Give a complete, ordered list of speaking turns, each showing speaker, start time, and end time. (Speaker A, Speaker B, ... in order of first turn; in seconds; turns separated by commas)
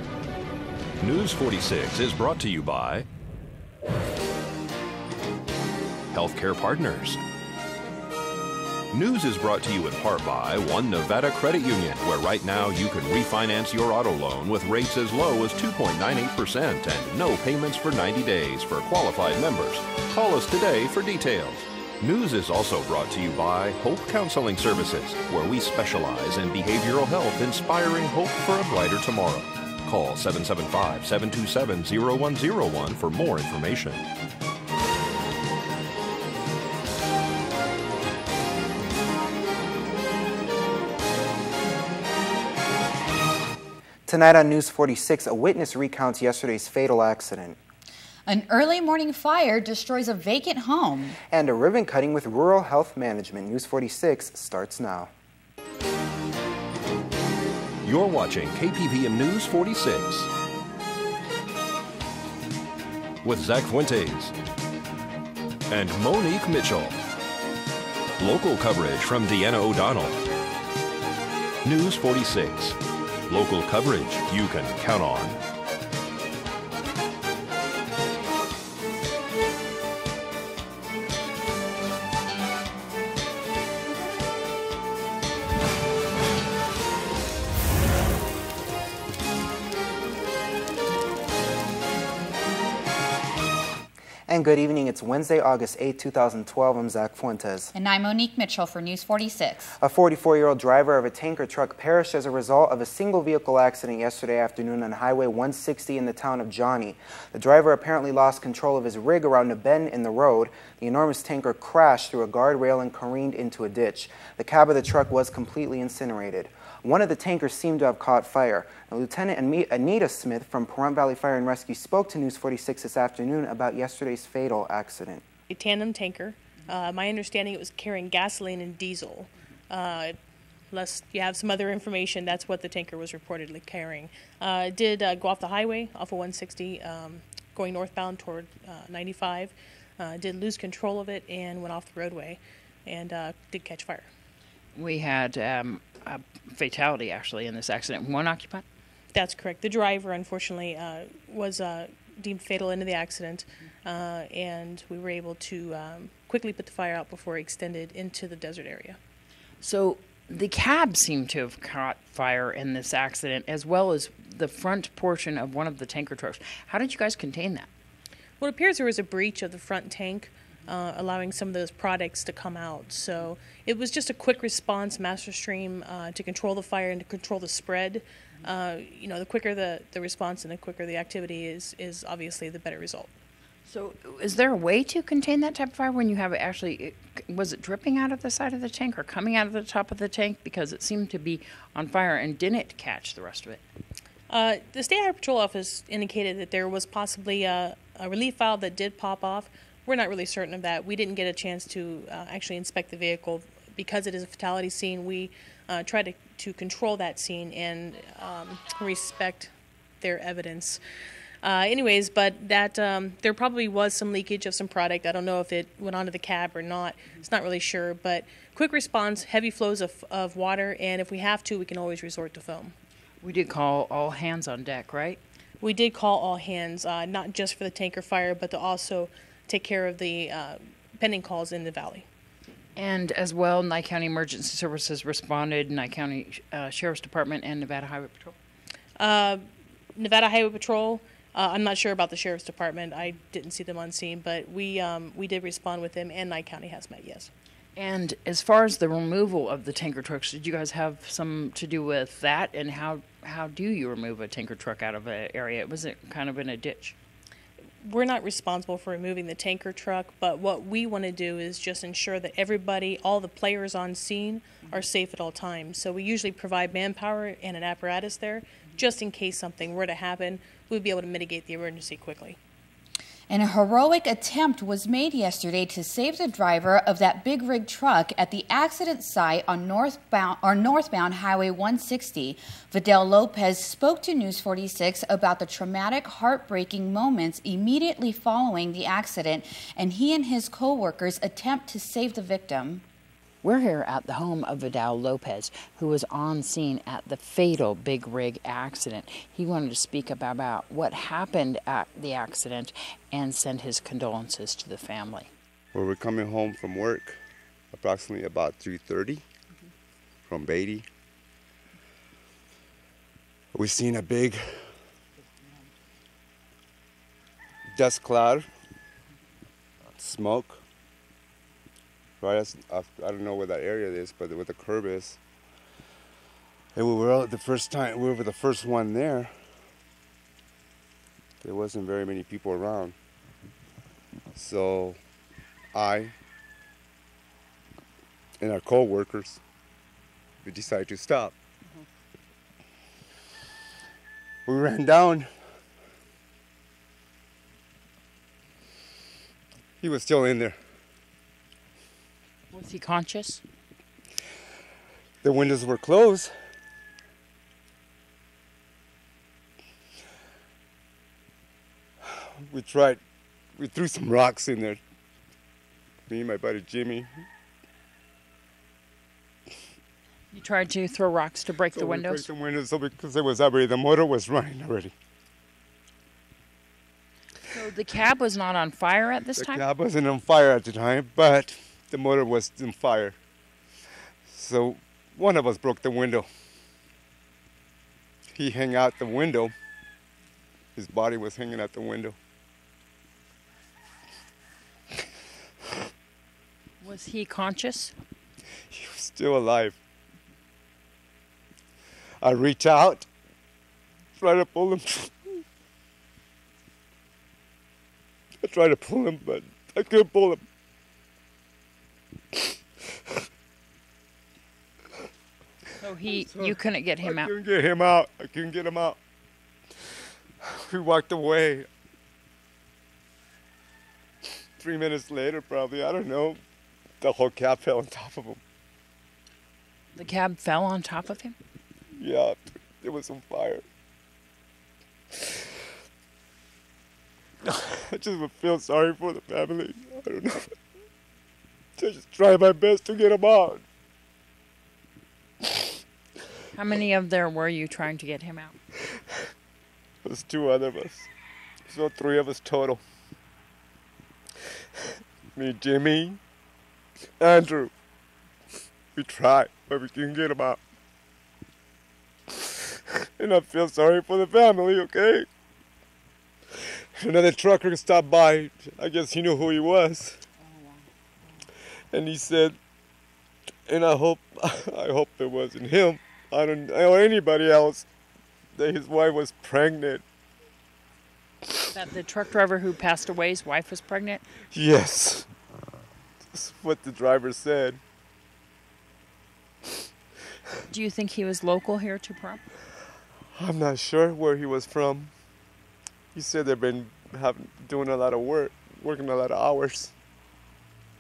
Speaker A: 1.0-3.1, Speaker A: 6.1-7.2, Speaker A: 8.9-34.0, Speaker B: 44.0-47.6, Speaker C: 48.3-51.2, Speaker B: 51.3-55.1, Speaker A: 57.8-60.3, Speaker A: 63.2-64.3, Speaker A: 65.7-67.0, Speaker A: 68.2-70.2, Speaker A: 71.6-75.4, Speaker B: 94.3-97.7, Speaker C: 97.7-99.8, Speaker B: 99.8-125.2, Speaker D: 125.5-130.1, Speaker D: 130.7-144.1, Speaker E: 144.7-148.6, Speaker D: 149.1-159.0, Speaker E: 159.6-167.7, Speaker D: 168.4-183.1, Speaker E: 183.7-193.6, Speaker D: 194.3-210.8, Speaker D: 211.4-222.7, Speaker E: 223.2-225.2, Speaker D: 225.6-232.1, Speaker E: 232.8-238.3, Speaker D: 239.0-239.4, Speaker D: 239.9-247.3, Speaker E: 247.8-256.9, Speaker D: 257.8-272.4, Speaker C: 273.3-292.8, Speaker E: 293.4-305.3, Speaker F: 305.7-307.2, Speaker F: 307.7-309.2, Speaker F: 310.3-310.9, Speaker F: 313.5-314.7, Speaker F: 317.7-318.5, Speaker F: 320.0-320.6, Speaker F: 322.2-325.2, Speaker F: 326.7-329.3, Speaker F: 331.4-332.9, Speaker F: 334.3-335.0, Speaker F: 335.7-336.1, Speaker F: 338.4-339.4, Speaker F: 340.4-341.3, Speaker F: 344.4-345.3, Speaker F: 349.8-350.6, Speaker E: 352.5-353.4, Speaker F: 355.2-356.3, Speaker F: 362.5-363.0, Speaker F: 363.6-364.8, Speaker F: 366.1-367.2, Speaker E: 370.3-372.3, Speaker F: 371.7-374.9, Speaker E: 377.5-379.6, Speaker F: 379.4-383.1, Speaker F: 384.3-386.3, Speaker F: 388.3-389.5, Speaker F: 390.8-392.1, Speaker E: 396.8-397.9, Speaker F: 398.7-399.8, Speaker F: 402.2-403.1, Speaker F: 404.2-405.4, Speaker F: 408.4-410.4, Speaker E: 415.8-417.3, Speaker F: 416.1-419.0, Speaker F: 420.4-421.7, Speaker F: 424.6-426.4, Speaker F: 427.0-428.4, Speaker E: 429.9-431.4, Speaker F: 431.9-433.6, Speaker F: 437.5-440.5, Speaker F: 441.8-443.6, Speaker E: 446.5-448.6, Speaker F: 450.0-451.1, Speaker F: 451.7-452.8, Speaker F: 455.3-456.2, Speaker F: 457.2-457.7, Speaker F: 458.9-460.6, Speaker F: 463.2-465.2, Speaker F: 466.9-470.2, Speaker F: 471.9-472.6, Speaker F: 473.7-477.9, Speaker F: 478.6-480.0, Speaker E: 481.7-484.2, Speaker F: 484.5-485.3, Speaker F: 486.3-487.8, Speaker E: 490.7-492.4, Speaker F: 493.3-495.1, Speaker F: 496.1-499.9